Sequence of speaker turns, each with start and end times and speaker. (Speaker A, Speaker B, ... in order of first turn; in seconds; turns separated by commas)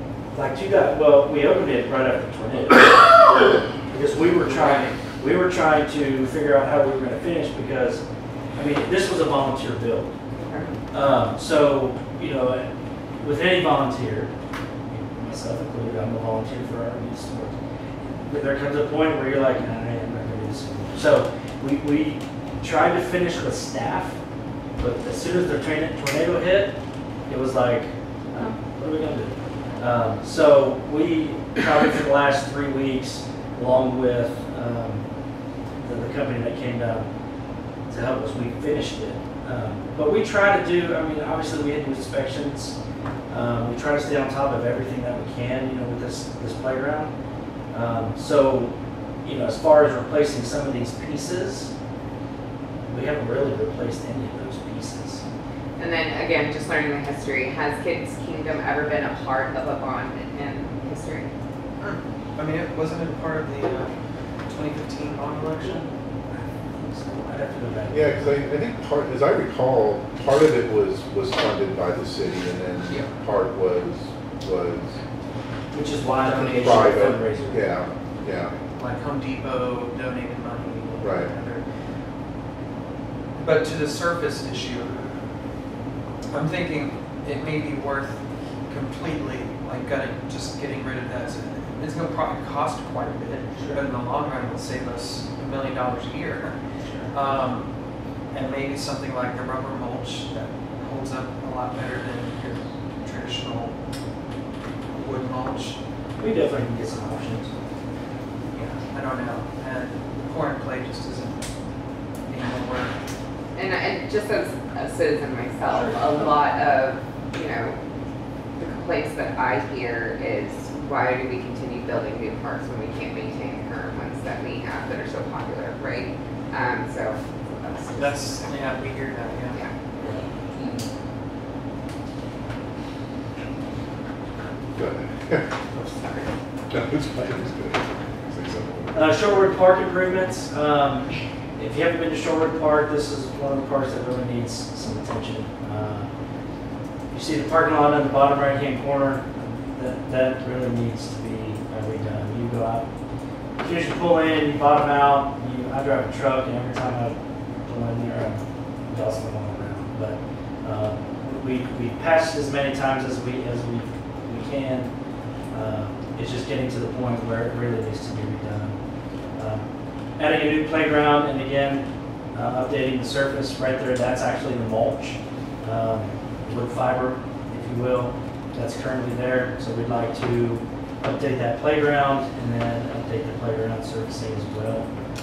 Speaker A: 0.3-8.0, Speaker B: 4.4-4.9, Speaker A: 8.5-10.1, Speaker C: 10.3-10.7, Speaker A: 10.9-14.3, Speaker A: 14.9-24.1, Speaker A: 24.8-26.8, Speaker A: 27.3-35.1, Speaker A: 35.8-37.1, Speaker A: 37.9-42.8, Speaker A: 43.3-47.1, Speaker A: 47.7-51.7, Speaker A: 52.9-55.2, Speaker C: 55.8-61.3, Speaker B: 61.8-63.9, Speaker B: 64.5-65.9, Speaker A: 65.3-65.7, Speaker A: 66.3-68.4, Speaker D: 67.9-75.0, Speaker A: 75.7-77.7, Speaker B: 76.3-76.9, Speaker D: 76.3-78.5, Speaker B: 78.8-81.7, Speaker D: 81.0-81.3, Speaker B: 83.3-85.0, Speaker B: 86.3-96.6, Speaker B: 97.1-97.7, Speaker B: 98.3-103.8, Speaker B: 104.9-105.8, Speaker A: 106.2-107.5, Speaker B: 108.5-111.4, Speaker B: 112.3-113.0, Speaker C: 113.5-117.8, Speaker C: 118.6-128.5, Speaker B: 127.9-129.6, Speaker C: 129.5-130.1, Speaker A: 130.0-130.2, Speaker D: 134.7-135.5, Speaker D: 136.7-139.5, Speaker A: 138.9-146.1, Speaker A: 147.1-152.9, Speaker A: 153.6-164.9, Speaker A: 165.5-168.8, Speaker A: 169.3-184.9